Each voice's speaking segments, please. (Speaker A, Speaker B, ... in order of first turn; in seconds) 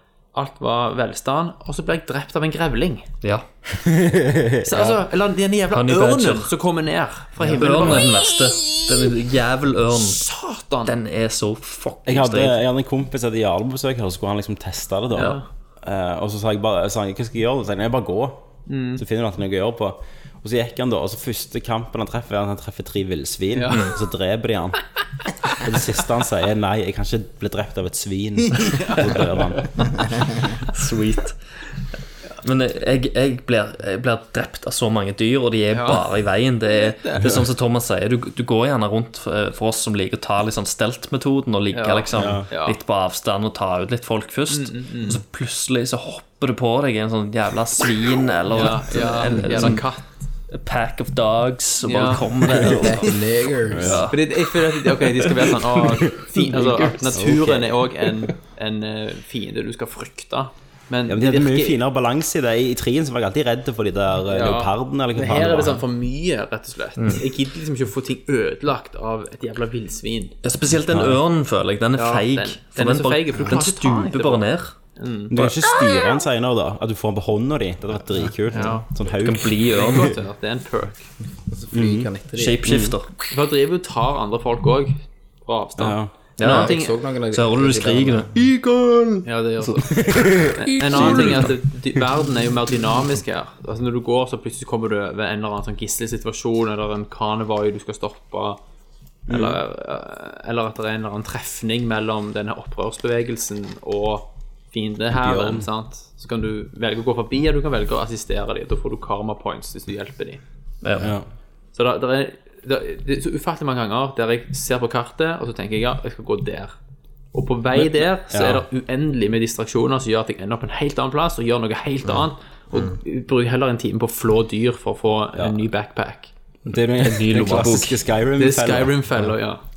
Speaker A: 0.3-3.1, 4.6-8.8, 9.9-11.0, 15.1-15.4, 18.7-19.0, 23.5-23.9, 28.6-29.4, 35.7-36.0, 41.7-42.8, 44.5-45.2, 48.5-50.1, 51.8-52.9, 54.0-61.8, 64.3-70.4, 72.0-75.4, 78.5-78.9, 79.7-81.1, 83.3-87.0, 89.2-98.6, 99.3-110.4, 111.7-116.7, 117.3-126.3, 128.4-129.6
Speaker B: 3.7-5.0, 12.1-24.8, 25.5-30.1, 42.1-42.5, 52.6-53.0, 53.7-54.1, 56.0-57.8, 61.1-65.8, 70.9-71.2, 75.3-79.6, 81.7-82.1, 82.6-83.0, 85.8-86.1, 88.3-91.6, 99.3-99.6, 105.1-105.7, 111.0-111.2, 118.3-118.6, 126.7-129.3
Speaker C: 5.7-6.5, 7.6-10.2, 10.8-12.6, 30.6-31.4, 32.4-49.8, 50.5-53.2, 53.8-54.2, 70.4-74.7, 79.2-80.1, 82.3-83.1, 86.4-88.3, 110.8-111.1, 127.0-128.0
Speaker D: 52.6-54.0, 81.5-82.6, 86.4-88.3, 122.0-123.0